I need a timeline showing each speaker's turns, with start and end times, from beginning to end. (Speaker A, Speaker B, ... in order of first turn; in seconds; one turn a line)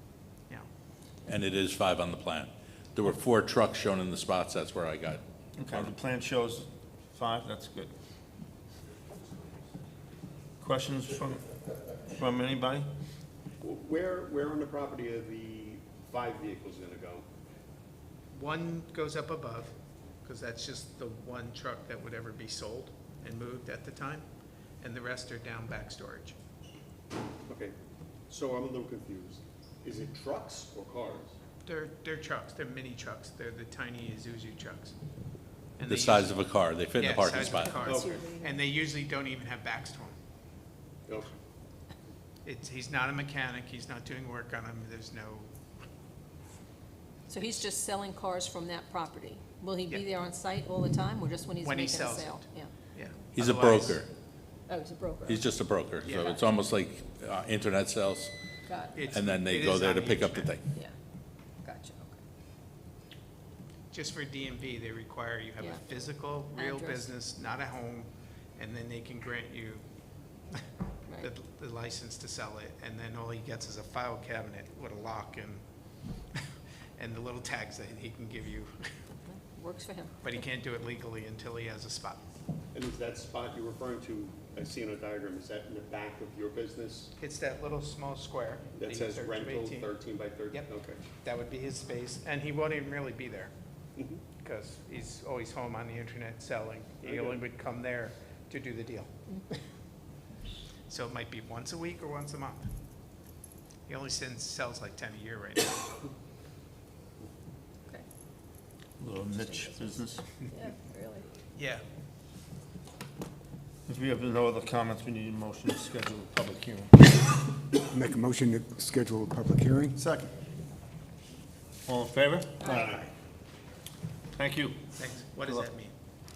Speaker A: 1.3-5.9
Speaker B: 5.6-7.9
Speaker B: 10.6-11.4
Speaker B: 12.1-12.9
Speaker C: 13.6-17.2
Speaker D: 18.3-24.3
Speaker D: 24.8-26.4
Speaker C: 27.5-27.7
Speaker C: 28.3-31.3
Speaker D: 31.6-34.9
Speaker D: 35.8-36.4
Speaker A: 35.9-37.9
Speaker D: 36.9-40.1
Speaker E: 37.4-38.6
Speaker C: 37.8-38.2
Speaker C: 41.1-41.3
Speaker D: 42.4-45.5
Speaker E: 47.3-52.7
Speaker D: 51.6-54.0
Speaker A: 53.3-54.1
Speaker E: 54.7-55.4
Speaker A: 55.2-58.3
Speaker D: 56.0-56.4
Speaker E: 58.7-59.0
Speaker D: 58.9-60.5
Speaker A: 59.1-60.6
Speaker E: 61.6-62.2
Speaker D: 63.9-69.8
Speaker E: 66.5-67.1
Speaker D: 71.2-75.6
Speaker D: 77.0-78.9
Speaker E: 79.3-80.1
Speaker D: 80.2-82.2
Speaker C: 82.7-87.1
Speaker D: 87.2-89.9
Speaker C: 88.7-91.0
Speaker D: 91.2-93.5
Speaker C: 94.0-94.2
Speaker D: 94.4-99.2
Speaker C: 97.0-97.4
Speaker D: 100.9-102.7
Speaker D: 103.9-105.8
Speaker B: 109.0-110.2
Speaker E: 109.3-111.3
Speaker D: 111.5-111.8
Speaker B: 113.8-117.1
Speaker F: 117.9-120.0
Speaker B: 120.0-120.3
Speaker B: 121.8-122.7
Speaker C: 122.7-123.0
Speaker B: 124.3-124.9
Speaker D: 124.9-125.9